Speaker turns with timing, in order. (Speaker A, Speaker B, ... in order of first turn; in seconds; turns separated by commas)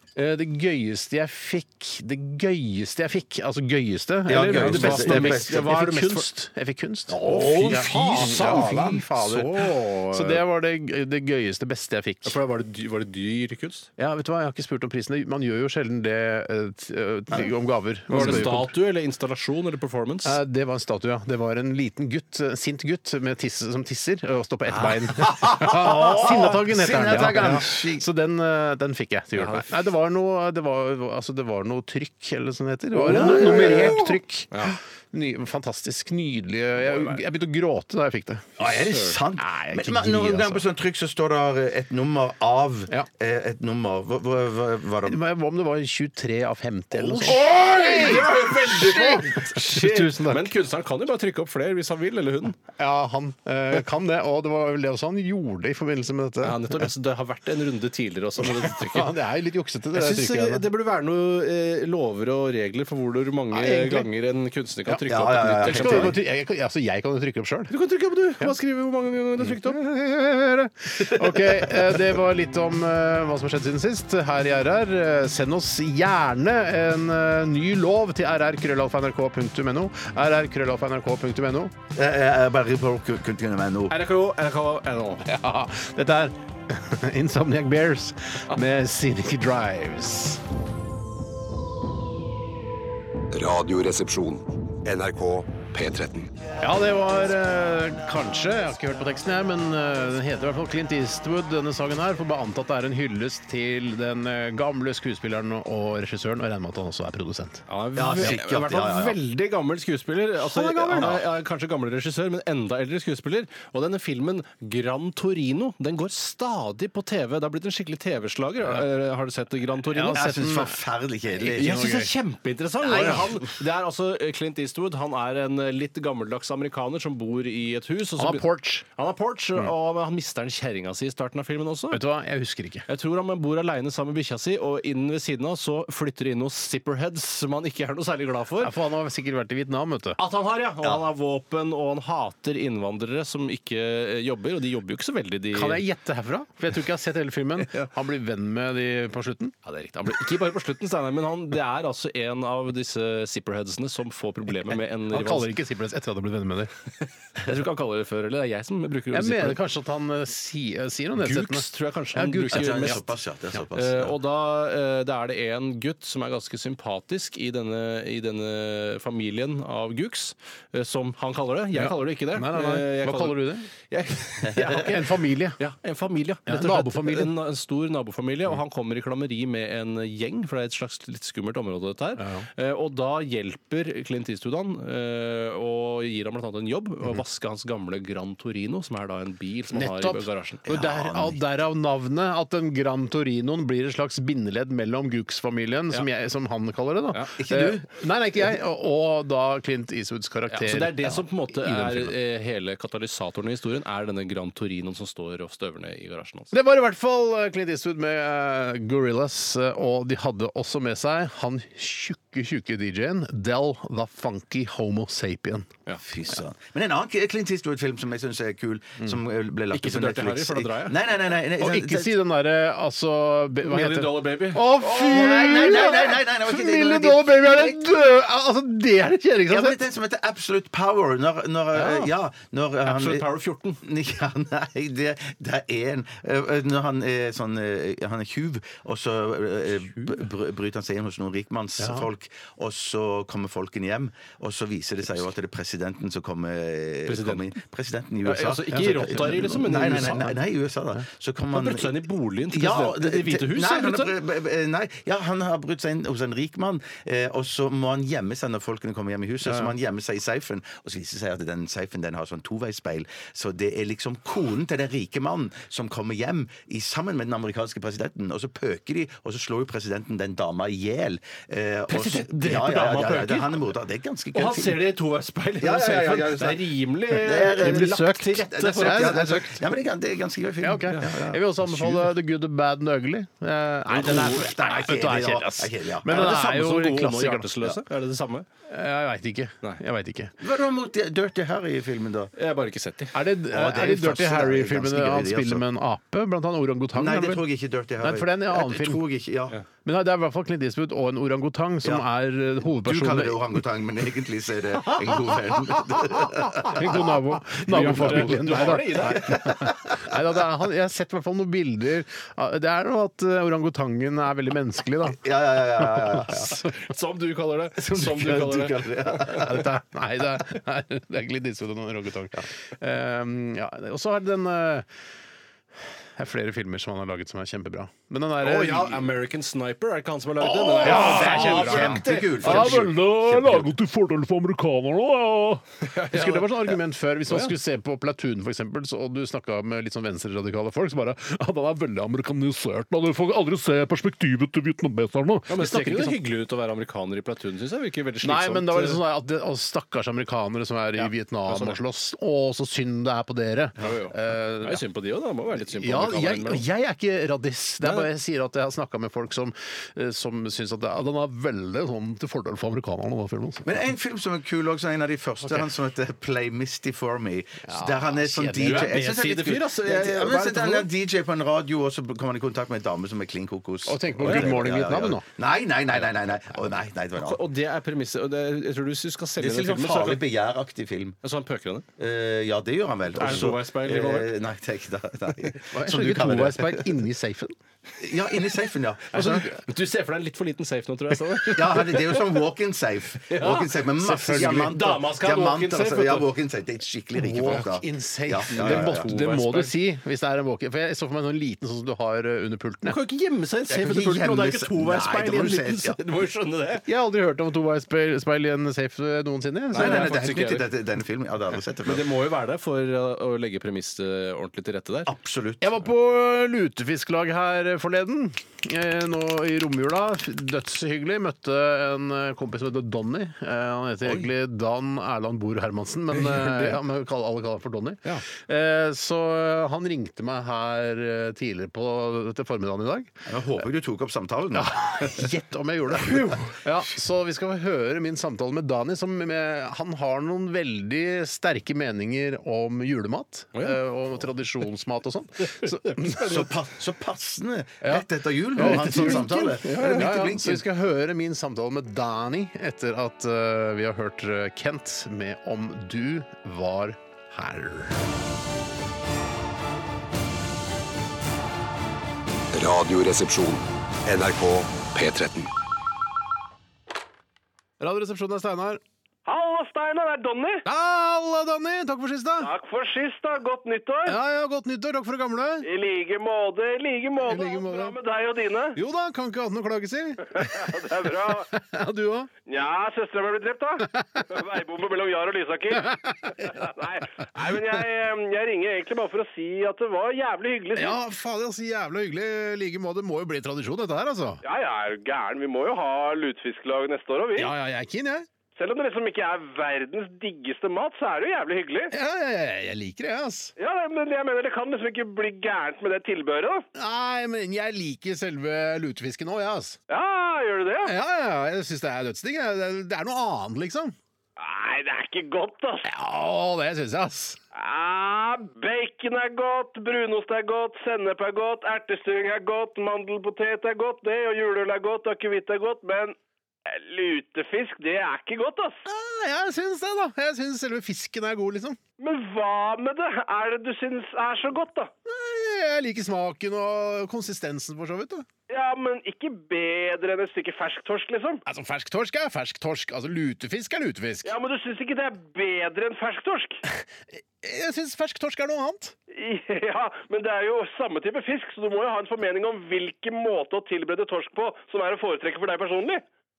Speaker A: 0.1-12.4, Speaker B: 4.2-5.7, Speaker C: 4.4-6.3, Speaker B: 7.1-8.8, Speaker C: 7.2-10.4, Speaker C: 12.2-13.9, Speaker A: 14.0-18.7, Speaker C: 18.1-20.4, Speaker B: 18.1-18.5, Speaker A: 20.2-38.5, Speaker B: 25.2-28.1, Speaker C: 27.4-27.6, Speaker C: 29.3-29.6, Speaker B: 32.9-34.2, Speaker C: 33.5-33.9, Speaker C: 34.5-34.8, Speaker C: 36.8-37.2, Speaker B: 38.6-45.2, Speaker C: 38.6-39.2, Speaker A: 39.4-40.6, Speaker A: 45.0-50.5, Speaker C: 47.0-52.6, Speaker B: 47.2-47.5, Speaker A: 52.8-56.9, Speaker C: 56.4-59.1, Speaker A: 58.4-60.6, Speaker C: 59.9-66.2, Speaker A: 63.5-64.1, Speaker B: 65.1-66.2, Speaker A: 65.6-67.7, Speaker C: 67.7-69.8, Speaker A: 69.4-81.7, Speaker B: 81.9-84.0, Speaker C: 83.9-85.3, Speaker A: 85.2-90.4, Speaker D: 93.3-96.3, Speaker A: 96.6-107.6, Speaker C: 107.7-120.3, Speaker B: 108.0-109.2, Speaker A: 110.4-111.2, Speaker A: 119.9-120.8, Speaker B: 120.1-121.9, Speaker A: 121.3-122.1, Speaker C: 121.5-132.0, Speaker A: 122.8-123.4, Speaker B: 123.0-123.2, Speaker A: 128.2-128.8, Speaker A: 131.9-132.8, Speaker C: 132.9-138.7, Speaker A: 138.6-140.2, Speaker C: 140.2-145.8, Speaker A: 145.5-149.5, Speaker C: 147.6-147.9, Speaker C: 149.6-155.5, Speaker A: 155.1-156.7, Speaker C: 157.0-159.6, Speaker A: 159.1-163.0, Speaker C: 161.2-163.0, Speaker B: 162.5-164.1, Speaker C: 163.7-175.0, Speaker A: 171.7-173.7, Speaker A: 174.5-175.6, Speaker C: 175.6-190.6, Speaker A: 176.5-177.3, Speaker A: 182.2-182.4, Speaker A: 189.7-202.2, Speaker B: 190.7-191.4, Speaker B: 197.4-197.8, Speaker C: 200.5-206.5, Speaker A: 206.5-215.7, Speaker B: 216.0-222.2, Speaker C: 219.7-220.9, Speaker A: 221.6-229.8, Speaker C: 223.6-225.5, Speaker B: 224.9-227.8, Speaker B: 229.5-251.9, Speaker C: 231.8-232.1, Speaker C: 232.8-233.8, Speaker A: 241.8-242.1, Speaker C: 247.1-247.4, Speaker C: 248.2-250.3, Speaker A: 248.7-250.3, Speaker C: 251.5-254.1, Speaker B: 252.5-274.8, Speaker A: 259.4-259.7, Speaker C: 271.9-273.6, Speaker C: 274.3-279.3, Speaker B: 275.6-282.0, Speaker A: 277.6-279.6, Speaker A: 280.6-287.6, Speaker B: 283.9-286.4, Speaker C: 286.1-288.5, Speaker A: 288.7-290.3, Speaker B: 290.4-292.3, Speaker C: 292.4-293.2, Speaker A: 293.1-297.4, Speaker B: 293.5-295.6, Speaker B: 296.9-299.6, Speaker A: 298.0-299.0, Speaker A: 299.8-303.6, Speaker B: 302.8-307.1, Speaker A: 306.6-316.7, Speaker C: 307.7-309.5, Speaker B: 307.7-310.0, Speaker B: 315.2-316.6, Speaker C: 316.7-319.5, Speaker B: 317.8-319.7, Speaker A: 319.3-324.9, Speaker A: 326.1-329.1, Speaker C: 328.4-332.9, Speaker A: 330.4-346.2, Speaker B: 330.8-333.6, Speaker C: 335.8-336.8, Speaker C: 337.3-337.5, Speaker C: 345.5-349.0, Speaker A: 348.2-354.8, Speaker C: 351.0-351.8, Speaker C: 353.8-356.6, Speaker A: 355.6-363.8, Speaker C: 357.8-358.1, Speaker B: 363.6-377.4, Speaker A: 367.6-369.1, Speaker C: 368.6-370.9, Speaker A: 373.9-375.2, Speaker C: 377.2-380.2, Speaker B: 379.4-381.2, Speaker C: 381.2-381.8, Speaker B: 382.0-386.9, Speaker C: 383.1-384.3, Speaker A: 385.7-387.6, Speaker B: 388.0-389.5, Speaker C: 389.1-392.2, Speaker B: 391.5-399.1, Speaker C: 393.3-393.8, Speaker A: 394.0-394.8, Speaker C: 394.3-396.3, Speaker A: 397.1-403.0, Speaker C: 398.5-399.7, Speaker C: 402.8-406.8, Speaker B: 403.7-406.0, Speaker A: 406.9-410.2, Speaker C: 409.7-410.7, Speaker B: 409.7-412.0, Speaker C: 411.8-415.1, Speaker B: 415.1-415.7, Speaker A: 415.6-433.3, Speaker C: 426.2-426.8, Speaker B: 433.3-435.2, Speaker A: 434.5-446.5, Speaker C: 445.6-446.3, Speaker B: 446.1-450.6, Speaker A: 447.8-458.0, Speaker C: 448.6-450.1, Speaker D: 462.5-465.5, Speaker A: 467.8-468.8, Speaker E: 469.2-470.6, Speaker A: 470.6-472.5, Speaker E: 472.4-474.1, Speaker A: 474.1-475.7, Speaker E: 475.6-478.8, Speaker A: 477.2-478.0, Speaker A: 478.7-482.3, Speaker E: 480.4-481.5, Speaker E: 482.4-491.0, Speaker A: 483.9-484.2, Speaker A: 485.7-486.7, Speaker A: 490.7-494.4, Speaker E: 494.4-497.5, Speaker A: 497.4-498.3, Speaker E: 498.6-501.9, Speaker A: 501.9-503.5, Speaker E: 503.6-506.6, Speaker A: 506.7-509.8, Speaker E: 509.9-510.9, Speaker A: 510.8-514.0, Speaker E: 514.4-515.9, Speaker A: 515.8-517.4, Speaker E: 517.5-526.1, Speaker E: 526.7-528.8, Speaker A: 528.9-531.8, Speaker E: 532.0-534.9, Speaker A: 535.0-538.3, Speaker E: 538.5-541.4, Speaker A: 541.4-544.4, Speaker E: 544.2-546.6, Speaker A: 547.4-548.9, Speaker E: 549.1-556.0